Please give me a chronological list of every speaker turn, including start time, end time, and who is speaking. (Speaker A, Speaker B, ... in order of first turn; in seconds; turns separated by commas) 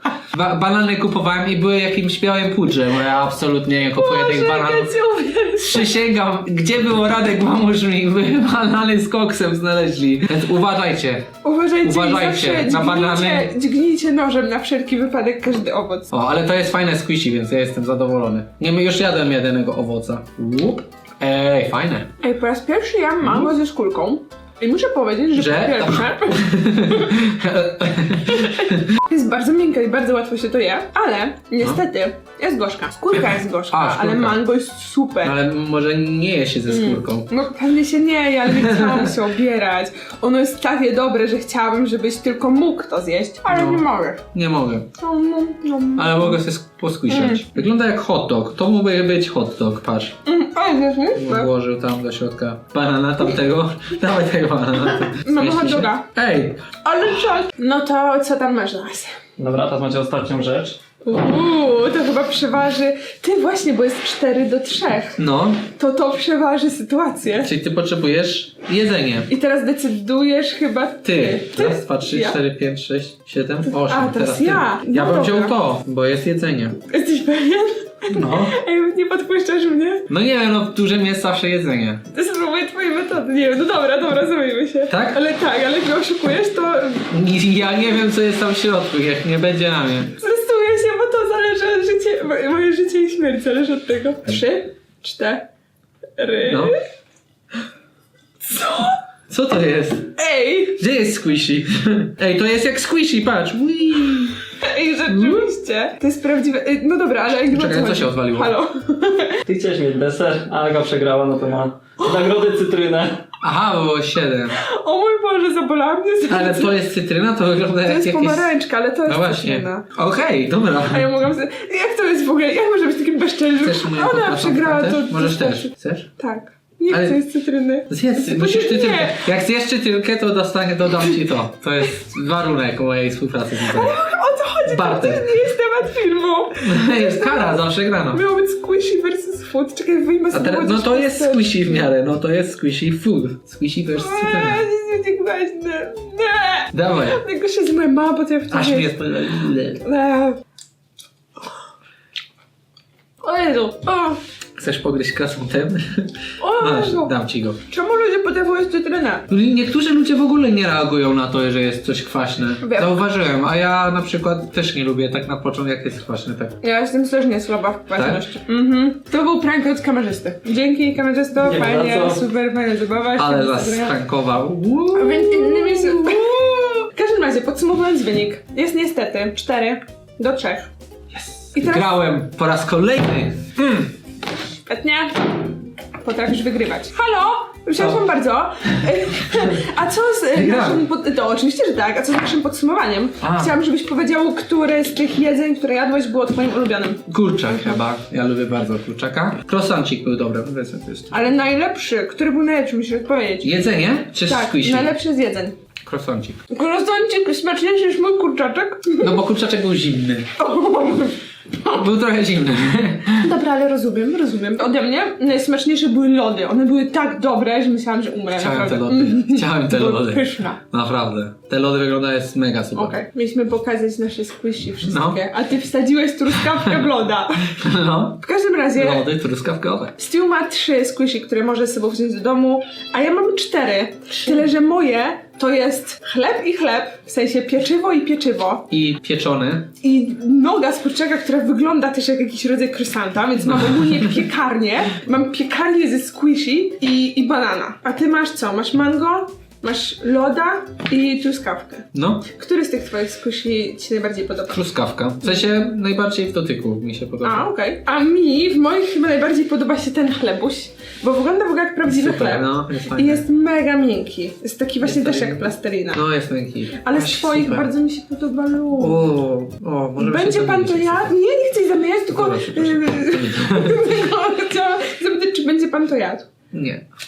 Speaker A: 0.3-4.9, Speaker B: 4.0-5.9, Speaker A: 5.6-11.3, Speaker B: 11.4-16.1, Speaker A: 11.8-13.5, Speaker A: 16.1-22.1, Speaker B: 22.2-27.2, Speaker A: 23.2-23.5, Speaker A: 25.3-28.9, Speaker B: 28.3-35.3, Speaker A: 33.7-34.5, Speaker A: 35.2-37.3, Speaker B: 36.7-44.2, Speaker A: 38.5-39.2, Speaker A: 43.5-44.9, Speaker B: 45.0-46.4, Speaker A: 46.0-50.1, Speaker B: 47.1-47.4, Speaker B: 50.2-51.5, Speaker A: 51.1-56.6, Speaker B: 55.1-56.1, Speaker B: 56.8-59.1, Speaker C: 59.4-60.8, Speaker B: 61.0-65.2, Speaker A: 65.2-65.6, Speaker B: 65.7-67.5, Speaker A: 67.4-69.3, Speaker B: 69.3-72.4, Speaker A: 71.0-76.8, Speaker B: 73.7-75.5, Speaker B: 76.9-80.0, Speaker A: 78.1-78.5, Speaker A: 80.1-82.0, Speaker B: 82.1-87.1, Speaker A: 84.9-85.2, Speaker A: 87.1-90.1, Speaker B: 90.2-95.5, Speaker B: 96.2-96.8, Speaker A: 96.5-96.7, Speaker B: 98.4-99.0, Speaker A: 99.3-100.1, Speaker B: 100.2-100.8, Speaker A: 100.8-104.4, Speaker B: 104.6-109.4, Speaker A: 105.1-105.5, Speaker A: 107.5-108.5, Speaker C: 109.5-113.2, Speaker A: 113.4-114.6, Speaker B: 114.5-116.7, Speaker A: 116.3-118.5, Speaker B: 117.8-119.8, Speaker A: 119.0-121.1, Speaker B: 120.9-129.2, Speaker A: 123.6-126.1, Speaker A: 126.9-127.2, Speaker A: 127.9-134.0, Speaker B: 133.6-141.9, Speaker A: 134.6-135.4, Speaker A: 136.5-138.2, Speaker A: 140.3-144.7, Speaker B: 143.9-150.4, Speaker A: 146.7-147.2, Speaker A: 148.5-149.8, Speaker B: 153.2-154.2, Speaker A: 154.6-157.6, Speaker B: 156.4-157.1, Speaker B: 157.7-159.2, Speaker A: 159.3-166.5, Speaker B: 162.6-163.0, Speaker B: 166.6-173.9, Speaker A: 167.9-168.2, Speaker C: 171.4-172.2, Speaker A: 173.2-176.7, Speaker B: 174.9-180.7, Speaker A: 181.1-183.9, Speaker B: 181.5-182.0, Speaker B: 184.6-197.8, Speaker A: 190.3-190.8, Speaker A: 193.2-193.5, Speaker A: 197.1-201.3, Speaker B: 201.1-203.5, Speaker A: 203.4-204.9, Speaker B: 204.2-205.6, Speaker A: 205.8-206.4, Speaker B: 206.5-209.2, Speaker A: 209.0-210.3, Speaker B: 210.4-211.8, Speaker A: 211.7-213.3, Speaker B: 213.2-220.6, Speaker A: 218.3-222.9, Speaker B: 222.7-227.6, Speaker A: 224.8-225.2, Speaker A: 227.6-228.2, Speaker B: 228.2-229.0, Speaker A: 228.7-229.9, Speaker B: 230.0-238.7, Speaker A: 238.7-239.7, Speaker B: 239.8-254.6, Speaker A: 243.4-244.3, Speaker A: 251.9-252.2, Speaker A: 254.5-257.5, Speaker B: 257.2-266.0, Speaker A: 261.9-263.2, Speaker A: 264.8-267.7, Speaker B: 266.8-269.0, Speaker A: 268.8-271.1, Speaker B: 270.0-276.3, Speaker A: 272.1-274.0, Speaker A: 276.5-276.8